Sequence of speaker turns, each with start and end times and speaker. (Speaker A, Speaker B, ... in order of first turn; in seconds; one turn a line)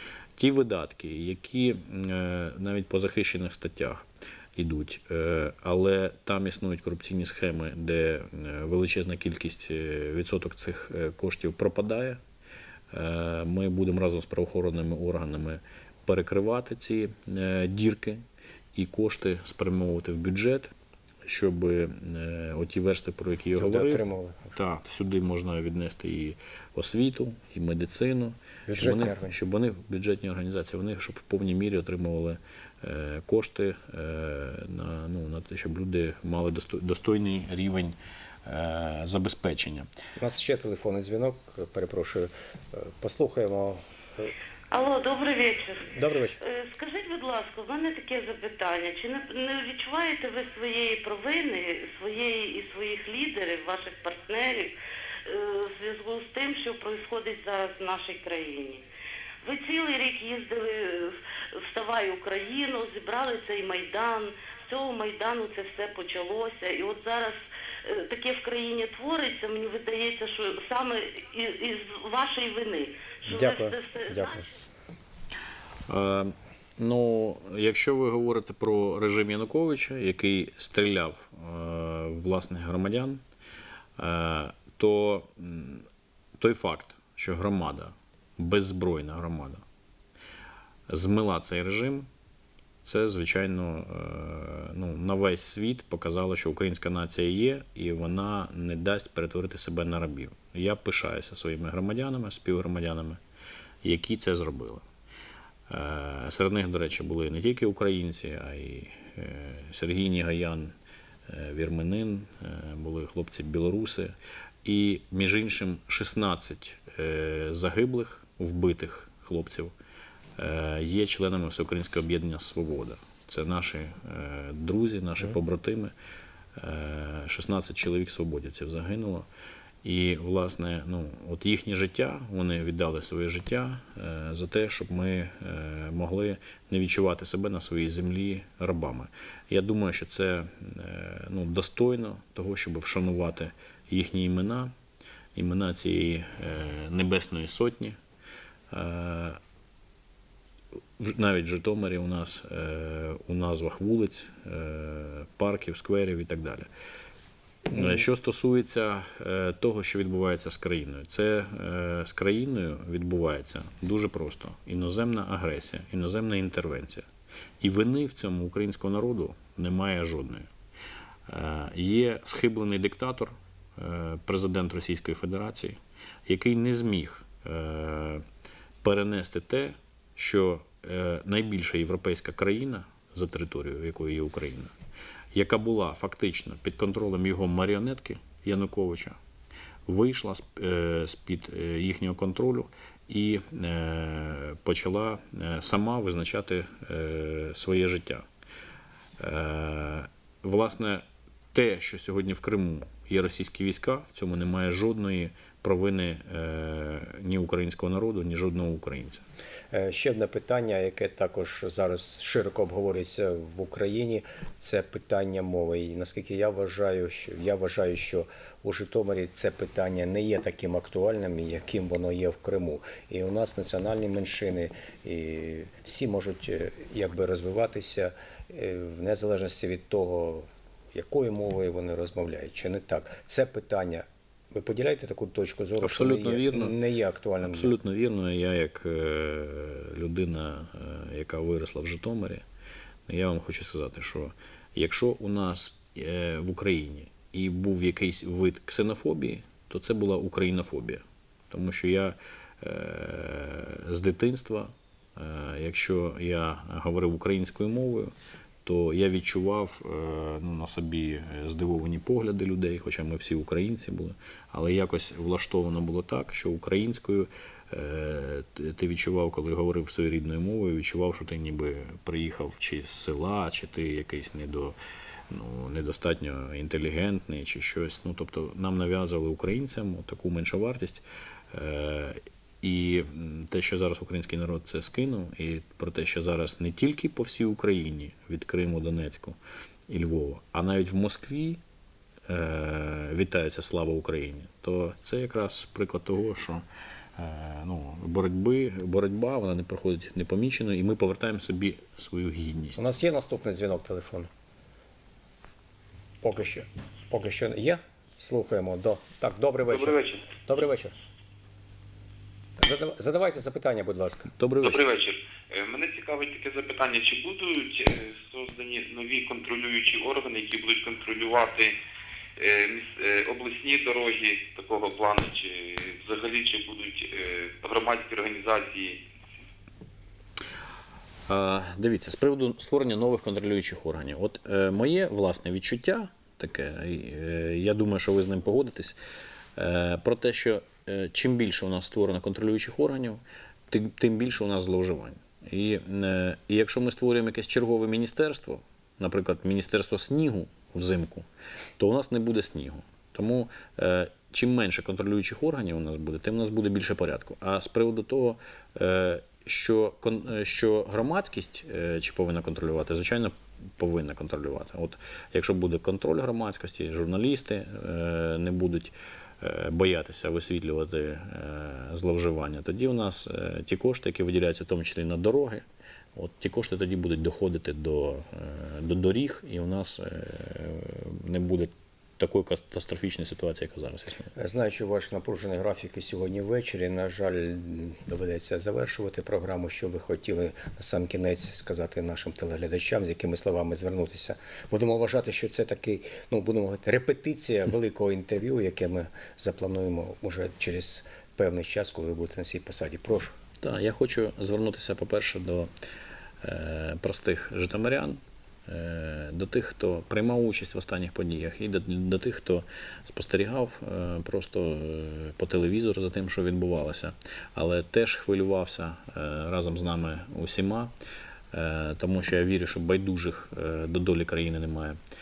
Speaker A: 0.4-12.2
Speaker A: 12.9-18.2
Speaker A: 18.8-20.7
Speaker A: 21.2-39.9
Speaker B: 23.6-24.5
Speaker B: 28.7-29.4
Speaker B: 40.2-44.3
Speaker C: 44.7-54.7
Speaker B: 45.9-46.4
Speaker C: 55.2-58.8
Speaker C: 59.4-74.4
Speaker B: 73.3-74.5
Speaker A: 75.9-83.2
Speaker A: 84.0-89.6
Speaker A: 90.9-92.1
Speaker A: 92.8-103.2
Speaker A: 103.8-104.9
Speaker A: 105.7-110.7
Speaker A: 111.3-119.7
Speaker A: 120.4-125.9
Speaker A: 126.6-129.3
Speaker A: 129.8-144.7
Speaker A: 145.3-148.0
Speaker A: 148.7-149.4
Speaker A: 151.0-156.7
Speaker A: 157.7-167.1
Speaker A: 167.6-170.5
Speaker A: 171.3-178.2
Speaker A: 178.8-184.8
Speaker A: 185.3-189.2
Speaker A: 189.9-198.3
Speaker A: 199.2-209.2
Speaker B: 209.7-237.8
Speaker A: 235.8-236.8
Speaker A: 237.4-242.4
Speaker A: 243.1-258.1
Speaker A: 258.6-274.8
Speaker A: 275.3-291.6
Speaker A: 292.3-296.6
Speaker A: 297.2-302.9
Speaker B: 302.8-304.3
Speaker B: 306.2-310.9
Speaker D: 309.7-310.2
Speaker B: 312.6-314.3
Speaker A: 314.4-314.8
Speaker D: 314.6-321.7
Speaker D: 322.4-329.0
Speaker A: 331.3-339.0
Speaker A: 339.6-351.3
Speaker A: 351.8-375.6
Speaker A: 376.1-384.3
Speaker B: 384.4-403.4
Speaker A: 403.6-405.7
Speaker A: 406.4-420.9
Speaker A: 421.5-425.0